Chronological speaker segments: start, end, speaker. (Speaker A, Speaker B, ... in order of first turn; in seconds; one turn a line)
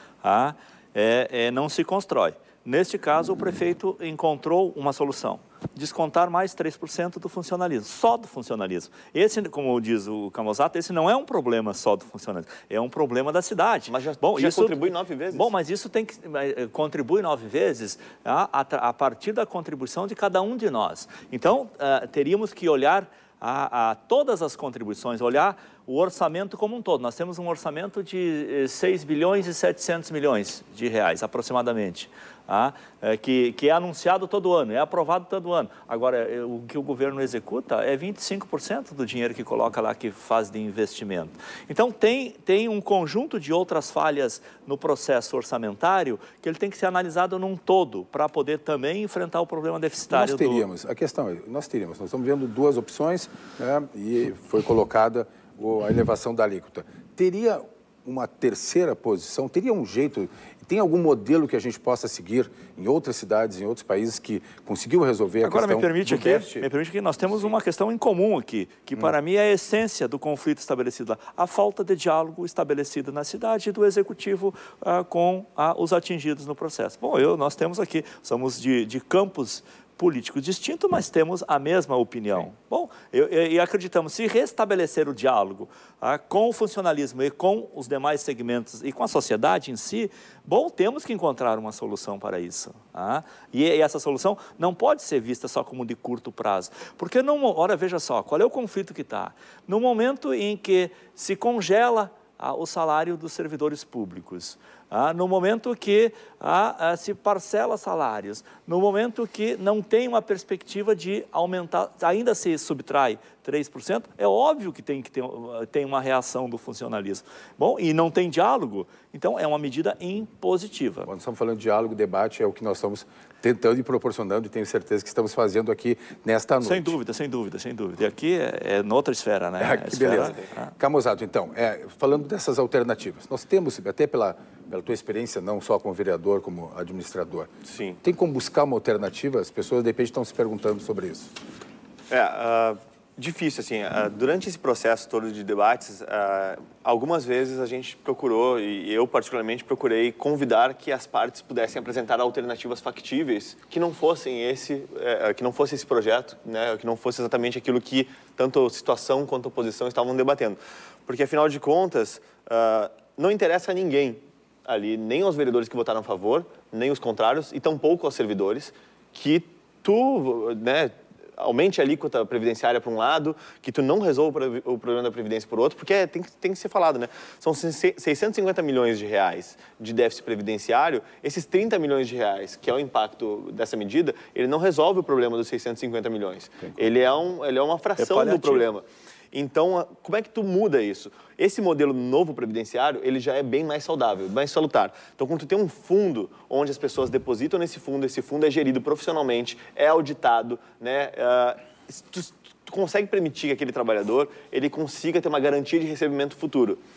Speaker A: 0.2-14.8
Speaker B: 13.9-15.5
Speaker A: 15.3-50.7
Speaker C: 50.1-66.7
Speaker A: 65.4-121.1
Speaker C: 121.1-126.9
Speaker A: 126.6-130.7
Speaker C: 129.6-137.5
Speaker B: 137.7-138.0
Speaker C: 138.0-141.3
Speaker B: 142.1-206.8
Speaker A: 188.0-188.7